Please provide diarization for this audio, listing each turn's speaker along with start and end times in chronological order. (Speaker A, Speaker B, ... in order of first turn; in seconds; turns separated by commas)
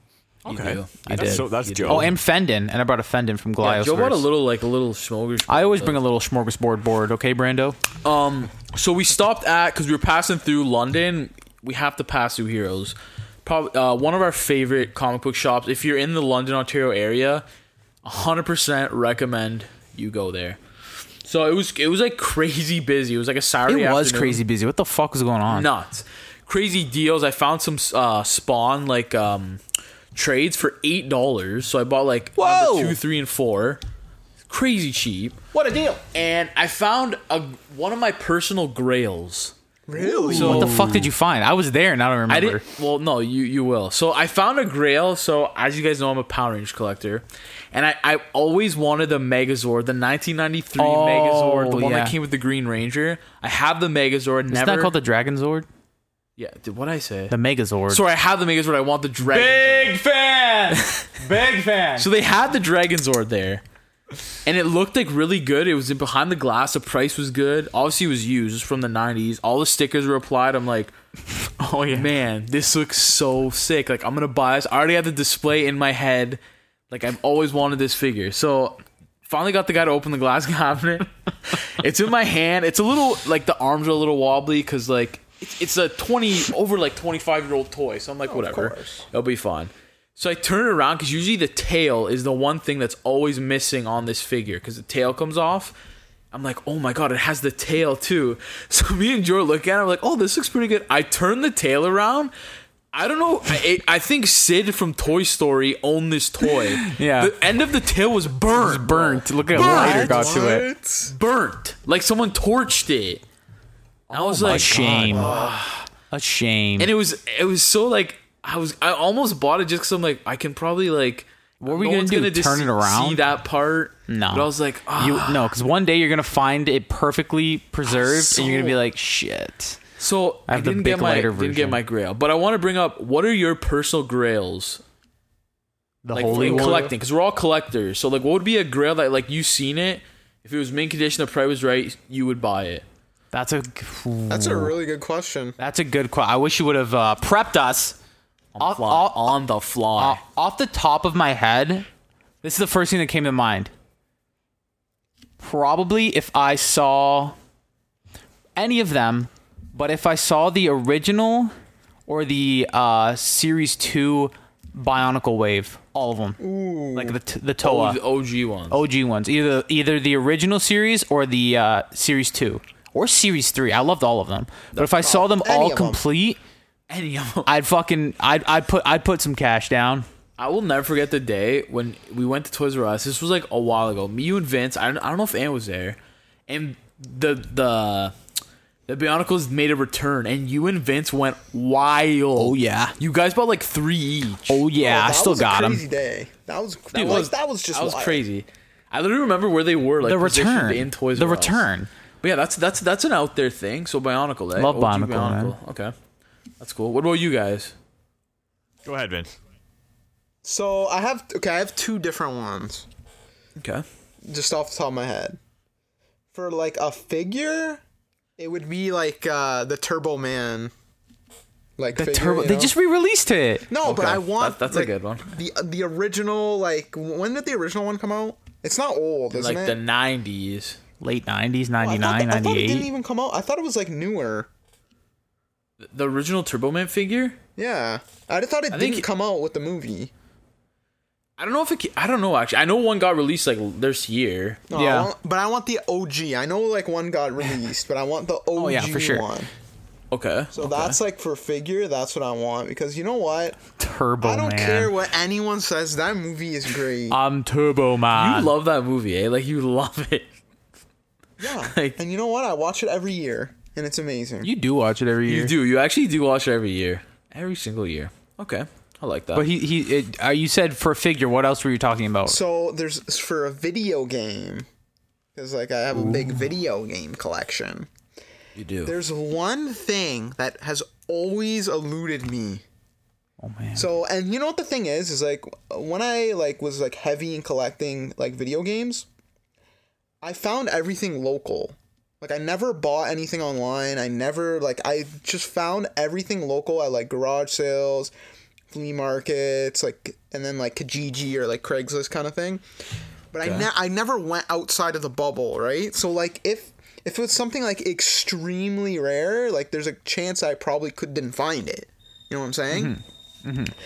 Speaker A: 0.4-2.2, Speaker B: 0.5-2.2, Speaker C: 1.1-4.2, Speaker A: 3.6-6.0, Speaker C: 5.5-7.8, Speaker A: 8.0-17.4, Speaker A: 18.0-20.6, Speaker A: 21.2-24.4, Speaker C: 23.7-25.7, Speaker A: 25.5-29.6, Speaker A: 30.1-33.8, Speaker C: 32.4-33.0, Speaker A: 34.5-35.4, Speaker C: 35.5-36.0, Speaker A: 36.1-39.5, Speaker D: 39.9-40.9, Speaker C: 40.1-42.6, Speaker A: 40.2-41.1, Speaker A: 42.3-54.9, Speaker C: 50.8-52.1, Speaker C: 54.5-55.7, Speaker A: 56.4-57.4, Speaker C: 57.3-58.0, Speaker A: 57.9-60.0, Speaker C: 59.2-62.1, Speaker A: 60.7-61.1, Speaker A: 62.0-63.6, Speaker A: 64.4-70.9, Speaker C: 71.6-72.1, Speaker A: 71.9-95.7, Speaker D: 88.3-89.0, Speaker A: 96.3-102.3, Speaker A: 102.9-113.2, Speaker C: 106.6-107.3, Speaker C: 108.5-110.7, Speaker D: 109.5-111.1, Speaker A: 114.1-115.4, Speaker C: 114.1-116.9, Speaker B: 114.5-115.0, Speaker D: 114.9-115.6, Speaker A: 116.8-125.5, Speaker C: 121.6-123.2, Speaker C: 124.1-129.8, Speaker A: 127.9-128.8, Speaker D: 128.4-128.8, Speaker A: 130.0-134.8, Speaker C: 130.5-131.8, Speaker C: 136.0-136.9, Speaker A: 136.1-142.8, Speaker D: 136.2-136.9, Speaker C: 143.3-144.8, Speaker D: 144.3-145.6, Speaker C: 145.6-147.9, Speaker A: 148.6-150.2, Speaker C: 148.6-149.3, Speaker C: 150.0-151.9, Speaker C: 152.4-153.7, Speaker C: 155.4-157.4, Speaker C: 158.6-161.5, Speaker C: 162.1-166.4, Speaker D: 166.4-167.2, Speaker C: 166.9-168.0, Speaker A: 167.6-168.8, Speaker C: 168.7-176.4, Speaker D: 174.7-176.0, Speaker A: 176.9-177.5, Speaker C: 177.5-180.1, Speaker A: 180.4-188.1, Speaker A: 188.9-194.7, Speaker C: 192.4-192.9, Speaker C: 194.5-195.8, Speaker D: 194.8-198.2, Speaker C: 196.9-197.2, Speaker A: 196.9-201.7, Speaker C: 200.0-201.9, Speaker A: 202.2-205.9, Speaker C: 204.6-205.5, Speaker A: 206.6-207.7, Speaker B: 208.8-209.3, Speaker D: 210.4-212.9, Speaker A: 213.6-213.8, Speaker D: 214.2-215.4, Speaker D: 216.3-217.8, Speaker D: 218.4-220.7, Speaker D: 221.8-222.7, Speaker C: 222.0-223.7, Speaker D: 223.7-229.8, Speaker A: 223.8-225.3, Speaker A: 229.3-230.8, Speaker C: 231.0-232.9, Speaker D: 231.8-234.5, Speaker A: 235.8-237.4, Speaker D: 237.6-240.1, Speaker A: 238.7-239.0, Speaker A: 241.4-244.6, Speaker D: 244.7-249.5, Speaker C: 244.7-245.1, Speaker C: 248.6-249.2, Speaker A: 250.1-251.0, Speaker D: 250.5-253.6, Speaker C: 253.8-254.9, Speaker D: 254.2-257.2, Speaker C: 257.1-258.5, Speaker A: 258.1-260.3, Speaker D: 261.4-264.5, Speaker A: 261.6-262.0, Speaker C: 264.4-265.5, Speaker A: 265.2-269.5, Speaker C: 269.4-272.4, Speaker D: 272.2-274.6, Speaker D: 275.4-277.9, Speaker C: 275.9-276.3, Speaker A: 278.6-278.9, Speaker D: 278.9-282.6, Speaker C: 283.4-283.9, Speaker D: 283.8-289.1, Speaker D: 290.2-298.1, Speaker D: 298.7-302.6, Speaker D: 303.3-313.0, Speaker A: 303.4-303.7, Speaker C: 312.7-313.8